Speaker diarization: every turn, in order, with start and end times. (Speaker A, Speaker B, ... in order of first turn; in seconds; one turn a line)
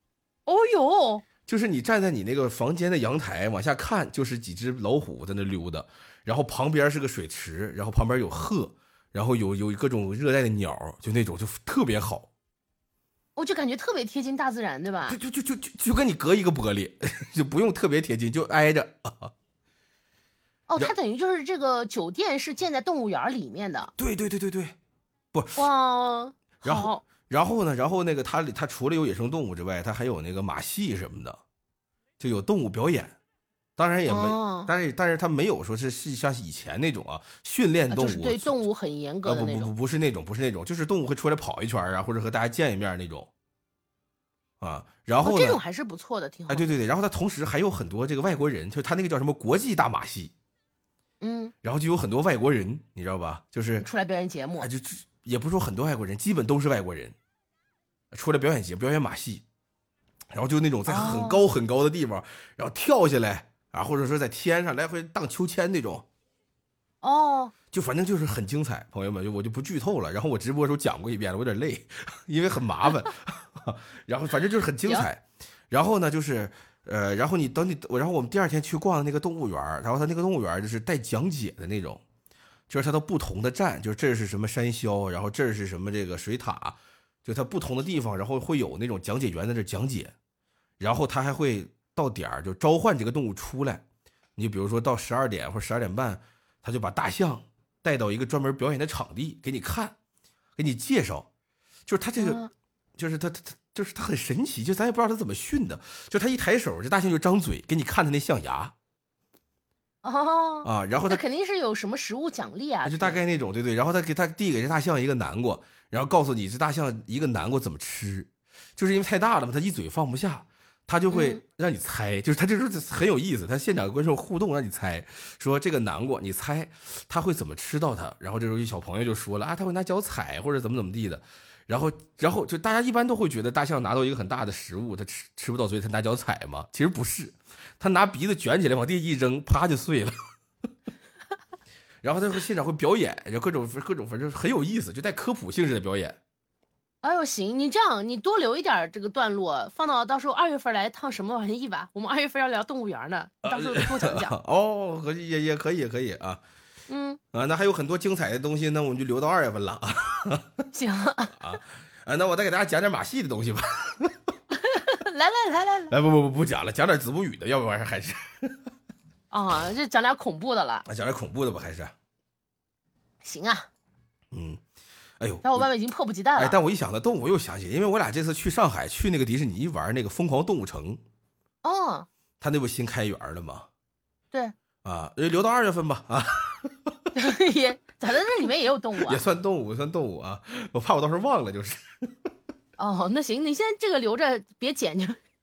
Speaker A: 0.5-1.2
Speaker B: 1.5-12.3
Speaker A: 13.3-15.2
Speaker B: 15.1-19.3
Speaker A: 20.7-23.9
Speaker B: 24.0-24.8
Speaker B: 25.3-25.6
Speaker A: 25.6-27.0
Speaker B: 26.6-31.4
Speaker B: 32.2-33.2
Speaker B: 33.8-38.6
Speaker A: 34.1-34.7
Speaker A: 37.9-39.7
Speaker B: 39.2-43.3
Speaker B: 44.6-45.6
Speaker A: 45.2-46.7
Speaker B: 46.5-50.3
Speaker A: 51.2-51.5
Speaker B: 51.6-53.9
Speaker A: 53.8-54.7
Speaker B: 54.6-57.1
Speaker B: 58.1-59.4
Speaker B: 60.3-66.0
Speaker A: 60.9-61.4
Speaker A: 67.0-67.5
Speaker B: 67.7-82.0
Speaker B: 82.7-90.1
Speaker B: 90.8-93.8
Speaker B: 94.4-100.0
Speaker B: 100.6-101.3
Speaker B: 101.9-102.4
Speaker A: 102.2-102.5
Speaker B: 103.0-108.7
Speaker A: 110.0-113.2
Speaker B: 110.6-111.2
Speaker B: 112.8-140.1
Speaker A: 121.1-121.4
Speaker B: 142.0-146.2
Speaker A: 147.0-154.3
Speaker B: 153.4-156.4
Speaker A: 156.9-157.2
Speaker B: 157.3-160.6
Speaker A: 160.7-161.4
Speaker B: 161.3-164.2
Speaker A: 164.5-165.9
Speaker B: 165.9-168.6
Speaker A: 169.3-170.8
Speaker B: 170.8-171.9
Speaker A: 173.2-173.7
Speaker B: 174.3-174.6
Speaker B: 175.2-175.7
Speaker A: 175.4-176.6
Speaker B: 176.3-181.0
Speaker A: 181.6-182.1
Speaker B: 182.4-183.7
Speaker B: 184.8-186.9
Speaker A: 187.1-189.2
Speaker B: 189.0-192.1
Speaker A: 192.8-195.2